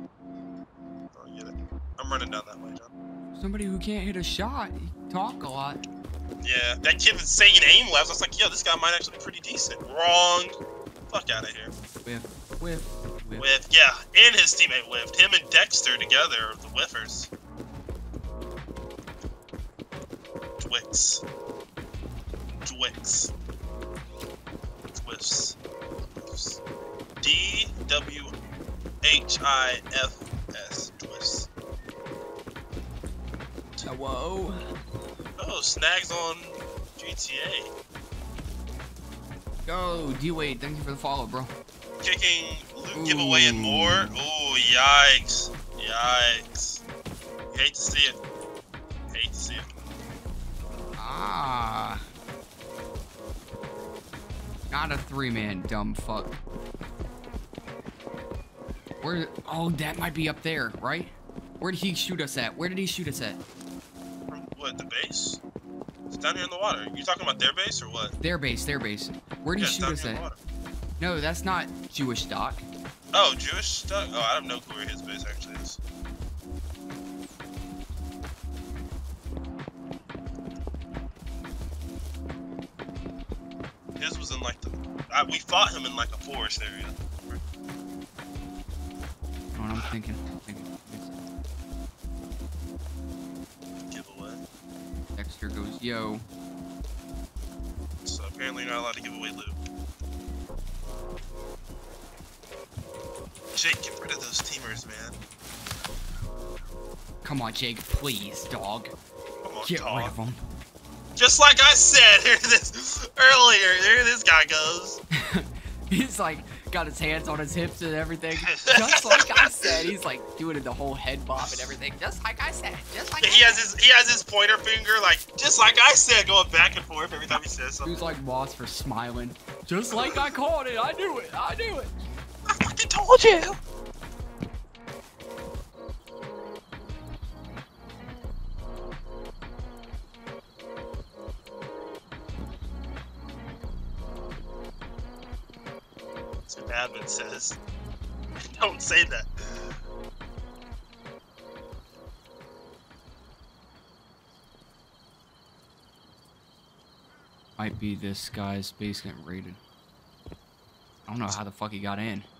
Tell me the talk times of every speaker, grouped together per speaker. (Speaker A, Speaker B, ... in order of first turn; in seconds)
Speaker A: 1.1-2.9, 6.4-10.6, 11.1-11.7, 13.4-17.3, 20.6-21.2, 22.6-23.3, 24.9-25.6, 26.1-26.6, 27.2-28.3, 29.0-31.5, 35.4-37.7, 42.0-46.8, 47.5-48.2, 49.1-49.7, 64.3-65.4, 66.1-68.2, 69.6-70.4, 73.1-75.8, 84.0-87.4, 93.9-94.4, 98.0-99.6, 103.5-105.2, 109.4-110.1, 111.2-115.0, 118.4-119.7, 121.4-121.7, 123.2-127.9, 129.9-130.3, 132.5-133.6, 146.5-147.6, 148.4-149.8
Speaker B: 3.3-5.8, 12.0-13.5, 33.8-34.6, 39.6-41.5, 42.9-44.1, 51.0-52.0, 54.7-56.4, 59.0-63.4, 68.2-70.2, 71.0-72.7, 89.5-91.2, 95.2-96.2, 107.2-108.9, 109.6-110.4, 115.1-123.6, 127.8-132.0, 157.6-159.6, 161.0-162.3